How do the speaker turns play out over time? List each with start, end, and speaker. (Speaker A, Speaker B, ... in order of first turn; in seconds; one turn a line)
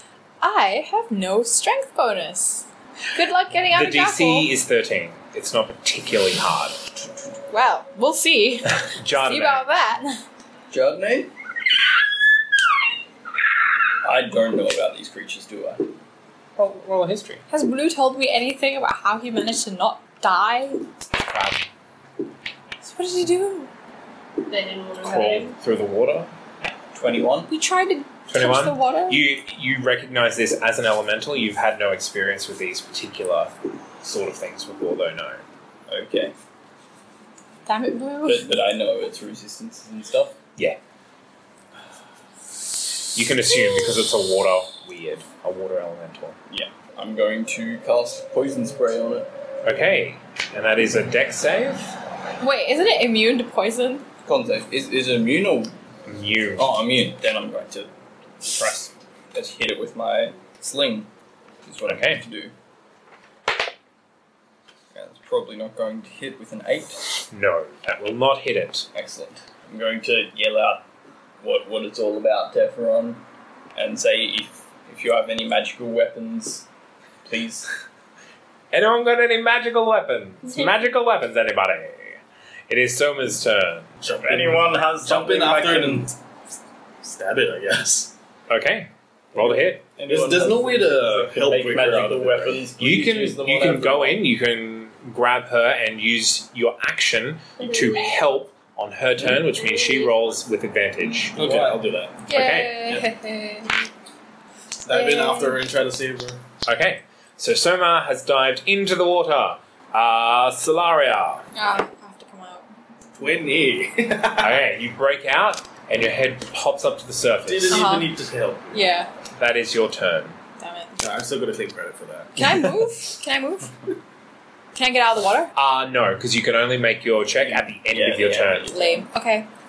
Speaker A: 0.4-4.5
Speaker B: 3.7-6.8
Speaker A: 7.5-10.2
Speaker B: 8.7-9.7
Speaker C: 10.7-11.3
Speaker C: 14.0-15.8
Speaker B: 16.6-17.4
Speaker A: 17.5-20.8
Speaker B: 21.2-21.7
Speaker A: 22.8-23.7
Speaker D: 24.5-25.6
Speaker B: 25.0-26.3
Speaker C: 26.6-27.5
Speaker A: 27.5-29.2
Speaker B: 28.3-35.4
Speaker C: 35.9-36.3
Speaker A: 37.6-38.6
Speaker C: 38.2-40.4
Speaker B: 43.1-46.4
Speaker C: 46.5-49.3
Speaker B: 49.6-51.9
Speaker A: 52.4-54.0
Speaker C: 54.2-55.7
Speaker B: 56.1-56.7
Speaker C: 56.6-61.1
Speaker C: 61.6-62.5
Speaker B: 61.9-62.2
Speaker C: 64.9-67.0
Speaker B: 67.3-68.9
Speaker C: 68.9-70.8
Speaker C: 71.4-73.2
Speaker C: 73.8-76.7
Speaker C: 77.3-77.7
Speaker B: 78.7-84.4
Speaker D: 80.4-80.8
Speaker E: 84.0-86.2
Speaker C: 84.3-86.1
Speaker E: 87.0-88.1
Speaker B: 88.5-89.8
Speaker C: 89.3-94.2
Speaker E: 90.1-92.7
Speaker B: 92.8-101.4
Speaker D: 97.6-98.4
Speaker D: 99.3-100.5
Speaker C: 101.4-101.9
Speaker E: 101.4-102.2
Speaker A: 102.3-103.8
Speaker B: 102.3-102.8
Speaker E: 104.8-106.4
Speaker A: 104.9-105.6
Speaker B: 106.7-111.4
Speaker A: 111.5-112.7
Speaker E: 113.2-114.7
Speaker B: 114.4-117.8
Speaker E: 117.5-119.0
Speaker A: 117.7-118.1
Speaker A: 118.7-119.1
Speaker B: 119.4-120.4
Speaker A: 120.6-120.9
Speaker E: 121.0-122.4
Speaker A: 122.4-123.7
Speaker A: 124.8-125.5
Speaker B: 125.5-128.7
Speaker C: 127.4-129.0
Speaker A: 128.7-129.5